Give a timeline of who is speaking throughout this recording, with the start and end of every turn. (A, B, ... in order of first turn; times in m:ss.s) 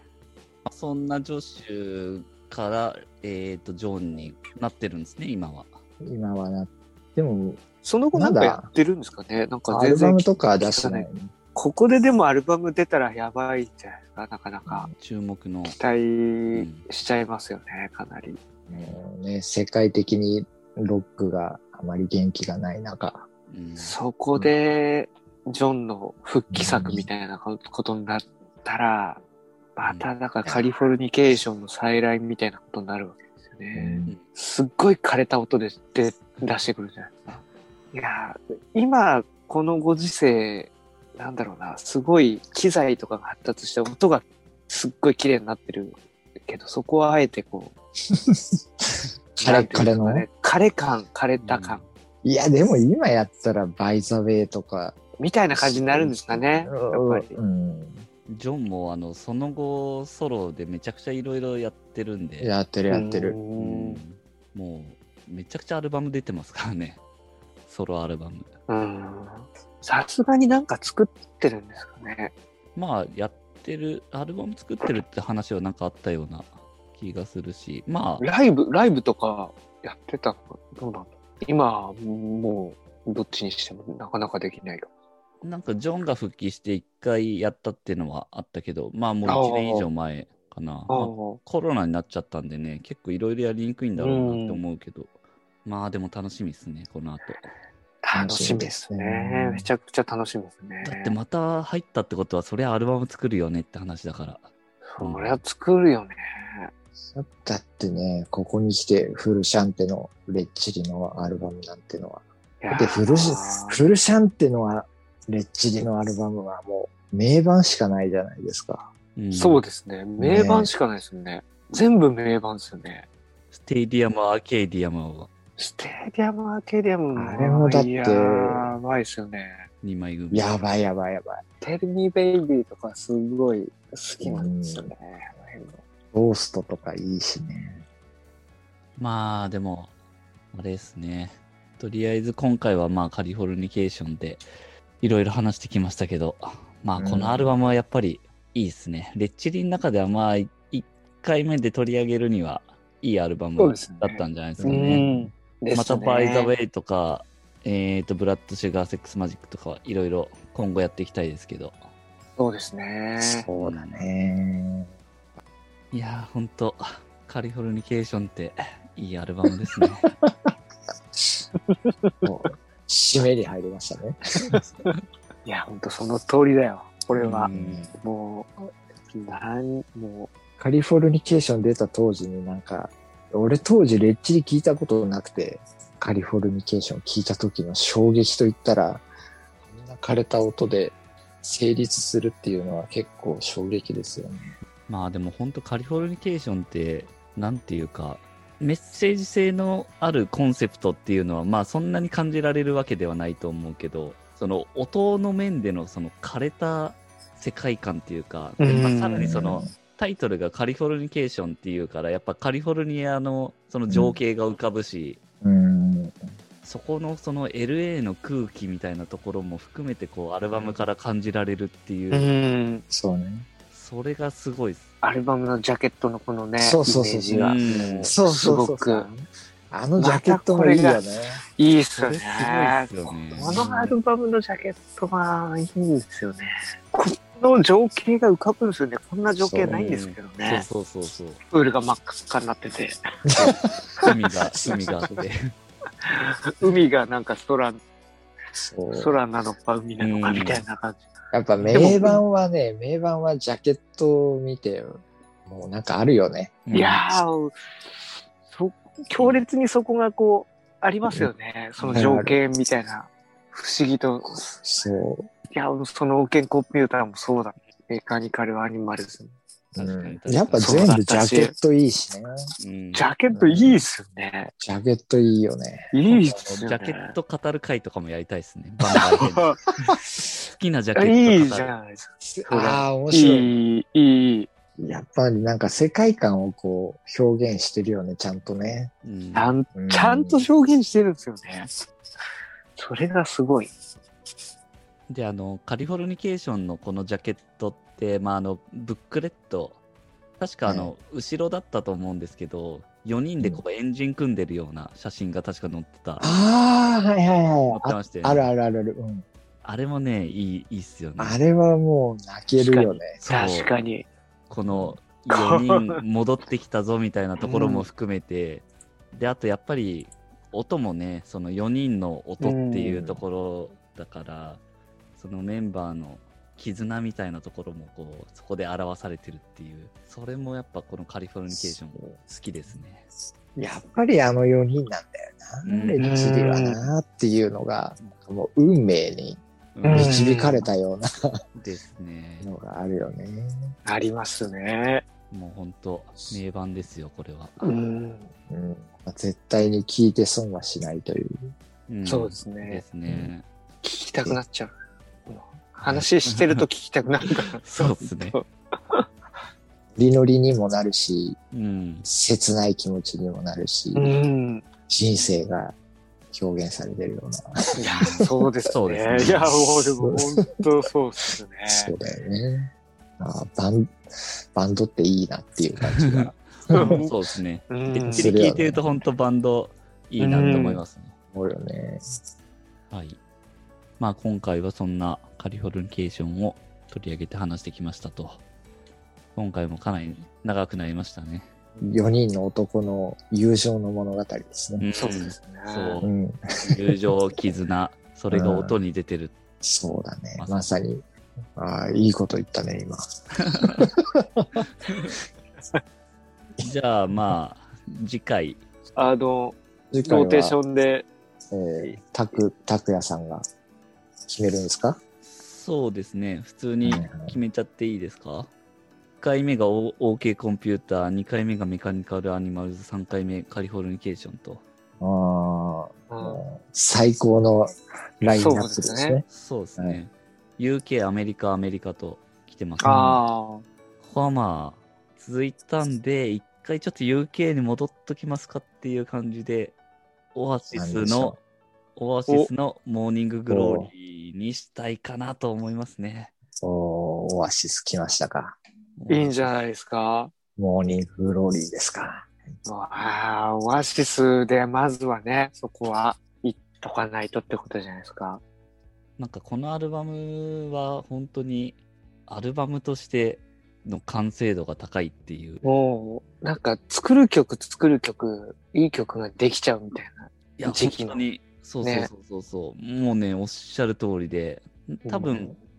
0:00.6-0:05.8 A
0:06.0-0:08.7 B
0:07.8-0:14.9 C
0:09.7-0:11.3 B
0:15.0-0:15.8 A
0:15.7-0:18.4 C
0:16.5-0:16.9 A
0:18.7-0:23.3 B
0:23.5-0:24.0 A
0:23.8-0:29.2 C
0:26.5-0:27.1 B
0:29.8-0:47.7 C
0:33.8-0:34.2 B
0:48.1-0:50.3 B
0:49.4-0:51.8 C
0:51.4-0:51.9 A
0:52.2-0:55.0 B
0:55.2-0:57.4 C
0:55.5-0:58.1 B
0:58.3-1:02.5 A
1:02.4-1:03.4 B
1:02.9-1:04.0 C
1:03.6-1:07.0 A
1:07.7-1:08.5 A
1:08.7-1:12.3 C
1:12.8-1:18.2 A
1:18.2-1:24.9 C
1:25.4-1:35.1 A
1:29.3-1:29.9 C
1:30.9-1:31.4 C
1:34.0-1:34.6 C
1:35.6-1:37.5 A
1:38.0-1:41.2 C
1:38.1-1:39.7 B
1:40.8-1:45.4 A
1:44.9-1:46.7 C
1:47.1-1:58.9 B
1:52.6-1:53.8 C
1:59.2-1:59.6 A
1:59.3-2:03.1 C
2:00.2-2:00.7 B
2:03.5-2:05.3 A
2:05.6-2:09.7 C
2:07.1-2:08.7 B
2:09.8-2:10.6 A
2:10.3-2:11.4 B
2:11.6-2:15.8 C
2:14.2-2:14.9 B
2:16.1-2:17.8 B
2:19.0-2:19.9 A
2:20.5-2:24.4 A
2:25.0-2:35.1 A
2:27.0-2:27.5 B
2:33.6-2:36.5 C
2:34.6-2:35.3 B
2:35.7-2:41.8 A
2:42.4-2:43.5 C
2:43.2-2:44.9 B
2:43.6-2:43.9 A
2:45.9-2:50.1 A
2:50.2-2:50.5 B
2:51.1-2:51.4 B
2:51.7-2:52.1 C
2:52.2-2:54.6 B
2:55.4-3:00.3 C
2:57.2-2:57.9 A
2:57.5-2:58.0 B
3:00.6-3:09.1 B
3:09.7-3:14.6 B
3:14.9-3:35.2 A
3:28.6-3:29.3 C
3:29.1-3:29.7 B
3:33.9-3:34.2 B
3:35.4-3:36.3 B
3:36.6-3:42.3 A
3:42.1-3:42.8 C
3:42.9-3:43.5 B
3:43.7-3:44.9 A
3:45.0-3:49.1 C
3:46.6-3:51.4 B
3:47.3-3:48.2 A
3:50.0-3:51.0 C
3:51.6-4:00.7 C
3:52.0-3:54.0 A
3:59.4-3:59.8 B
3:59.7-4:01.4 A
4:01.5-4:03.0 C
4:03.3-4:05.2 B
4:03.4-4:05.6 A
4:06.0-4:07.8 C
4:08.6-4:09.2 B
4:08.9-4:11.0 C
4:10.0-4:10.6 A
4:11.3-4:16.7 B
4:11.6-4:12.0 A
4:11.7-4:12.2 C
4:16.7-4:17.1 A
4:16.7-4:24.6 C
4:19.2-4:19.4 A
4:21.8-4:22.1 A
4:21.9-4:22.4 B
4:24.6-4:25.3 B
4:25.5-4:29.4 C
4:29.8-4:32.5 B
4:29.8-4:30.9 A
4:30.6-4:31.5 C
4:32.6-4:33.1 A
4:32.9-4:34.5 C
4:33.3-4:33.8 B
4:34.6-4:36.2 B
4:35.9-4:37.2 C
4:36.4-4:39.9 A
4:38.9-4:39.6 C
4:40.4-4:41.7 A
4:41.0-4:44.5 C
4:42.2-4:43.5 B
4:44.8-4:48.9 B
4:49.0-4:49.6 A
4:49.3-4:51.8 C
4:49.8-4:50.5 B
4:52.8-4:53.7 C
4:55.1-4:59.8 A
5:00.4-5:06.3 A
5:00.7-5:00.9 B
5:06.2-5:09.3 B
5:07.7-5:08.5 A
5:09.6-5:11.4 A
5:11.2-5:13.2 B
5:12.6-5:14.1 C
5:13.2-5:13.7 A
5:14.5-5:24.6 A
5:14.7-5:15.0 B
5:15.3-5:16.0 C
5:17.4-5:17.9 C
5:22.4-5:23.0 C
5:22.9-5:23.2 B
5:25.2-5:33.1 A
5:31.5-5:32.2 B
5:33.6-5:41.4 B
5:35.6-5:36.1 A
5:36.0-5:36.8 C
5:39.8-5:40.2 A
5:39.8-5:40.7 C
5:41.6-5:42.5 A
5:42.4-5:43.7 B
5:43.8-5:45.1 C
5:45.3-5:47.6 A
5:47.6-5:48.3 C
5:48.5-5:51.5 B
5:51.9-5:53.5 A
5:52.1-5:52.8 C
5:53.8-5:54.7 C
5:55.3-5:59.1 C
5:55.9-5:56.6 A
5:57.6-5:58.4 A
6:00.0-6:01.4 B
6:01.5-6:02.1 A
6:02.0-6:04.2 B
6:04.0-6:04.7 C
6:04.9-6:05.8 B
6:06.3-6:08.1 B
6:07.8-6:11.9 C
6:08.0-6:09.5 A
6:09.1-6:10.6 B
6:11.7-6:17.0 B
6:15.8-6:21.1 A
6:16.7-6:17.1 C
6:17.7-6:18.4 C
6:18.1-6:18.9 B
6:20.2-6:20.8 C
6:21.3-6:22.0 B
6:22.9-6:23.2 A
6:24.0-6:28.4 A
6:29.4-6:31.5 A
6:31.8-6:34.9 B
6:34.8-6:36.1 A
6:35.0-6:36.0 C
6:36.0-6:36.8 B
6:36.6-6:39.3 A
6:38.3-6:38.8 B
6:39.6-6:41.0 B
6:40.4-6:40.7 A
6:41.6-6:43.0 B
6:43.4-6:43.9 A
6:43.6-6:44.6 B
6:44.9-6:45.1 A
6:46.6-6:48.6 A
6:49.0-6:51.1 C
6:49.9-6:50.6 B
6:51.5-6:53.4 B
6:54.3-6:55.0 B
6:55.2-6:58.5 A
6:56.8-6:57.4 B
6:59.2-7:04.6 A
7:05.0-7:09.2 B
7:06.1-7:06.4 C
7:08.3-7:09.2 C
7:09.3-7:13.2 A
7:12.8-7:13.6 C
7:14.0-7:19.8 A
7:20.3-7:21.4 A
7:20.7-7:21.4 B
7:22.0-7:26.3 A
7:23.5-7:23.9 B
7:26.6-7:28.6 B
7:29.0-7:29.6 A
7:29.1-7:30.3 C
7:30.6-7:32.3 B
7:32.6-7:38.4 C
7:39.2-7:45.6 A
7:45.6-7:51.2 C
7:50.6-7:55.5 A
7:51.8-7:52.1 C
7:55.1-7:55.4 C